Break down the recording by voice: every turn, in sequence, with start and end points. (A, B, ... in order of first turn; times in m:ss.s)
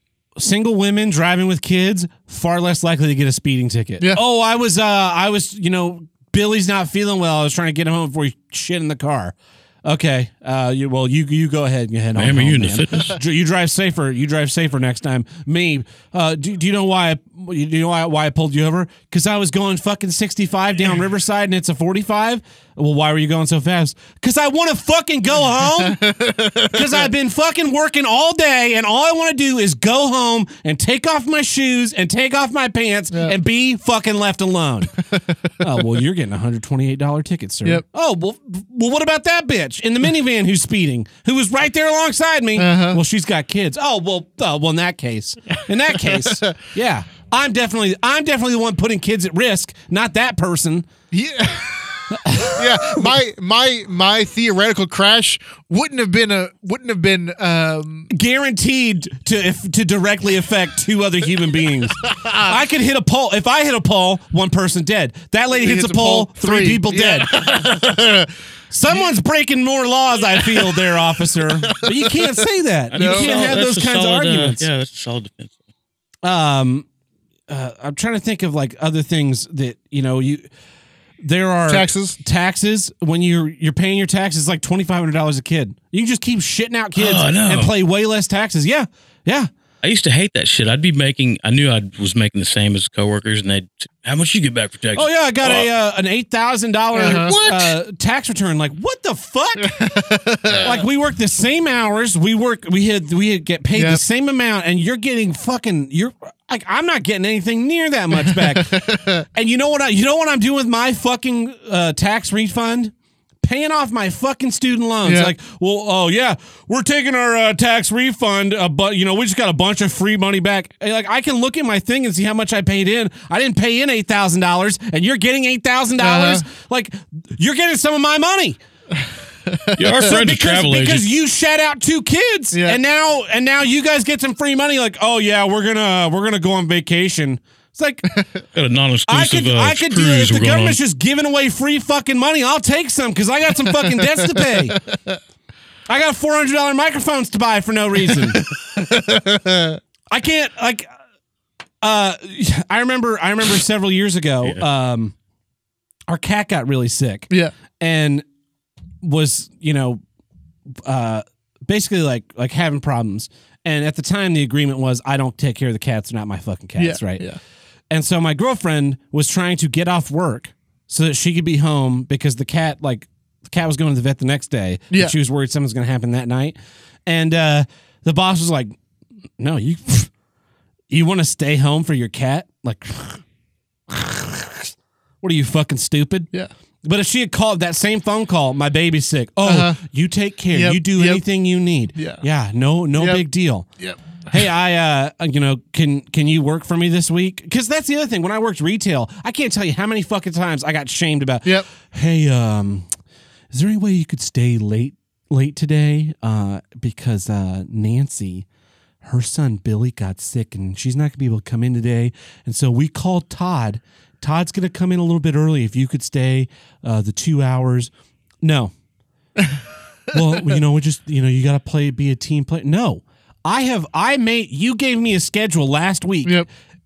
0:00.4-0:26.0 A
0:12.2-0:13.2 B
0:25.6-0:27.1 C
0:26.6-0:35.0 A
0:33.1-0:33.4 C
0:35.6-0:50.9 A
0:42.6-0:43.0 C
0:45.9-0:46.5 C
0:51.1-0:58.1 C
0:52.1-0:53.1 A
0:58.1-1:07.5 A
1:02.1-1:02.4 C
1:05.5-1:08.3 C
1:08.7-1:14.7 A
1:10.3-1:11.0 C
1:11.6-1:12.4 C
1:12.9-1:15.6 B
1:12.9-1:13.6 C
1:16.2-1:16.9 A
1:17.5-1:20.4 A
1:21.2-1:29.5 A
1:21.7-1:22.2 C
1:27.0-1:27.7 B
1:29.8-1:35.7 B
1:35.0-1:39.8 A
1:36.9-1:37.8 C
1:39.6-1:40.8 C
1:40.5-1:40.8 B
1:40.6-2:08.6 A
1:43.7-1:44.0 C
1:48.1-1:49.2 C
1:55.0-1:55.3 C
2:06.0-2:06.4 C
2:09.0-2:10.1 C
2:09.8-2:11.1 B
2:10.0-2:18.1 A
2:12.5-2:12.8 C
2:18.6-2:20.8 B
2:19.1-2:24.8 A
2:23.8-2:25.2 C
2:25.9-2:28.4 A
2:28.1-2:29.8 C
2:30.1-2:30.9 A
2:31.8-2:35.1 A
2:36.1-2:38.2 A
2:39.0-2:40.0 A
2:40.8-2:47.3 A
2:46.8-2:47.4 C
2:47.9-2:58.8 A
2:59.4-3:00.1 A
3:00.9-3:03.2 A
3:03.9-3:06.3 A
3:06.8-3:13.7 A
3:09.4-3:09.8 C
3:10.5-3:11.2 C
3:12.0-3:12.2 C
3:13.0-3:13.2 C
3:13.8-3:14.4 C
3:14.3-3:22.9 A
3:23.5-3:28.5 A
3:29.0-3:37.9 A
3:38.4-3:38.7 A
3:39.4-3:40.6 C
3:40.1-3:46.4 A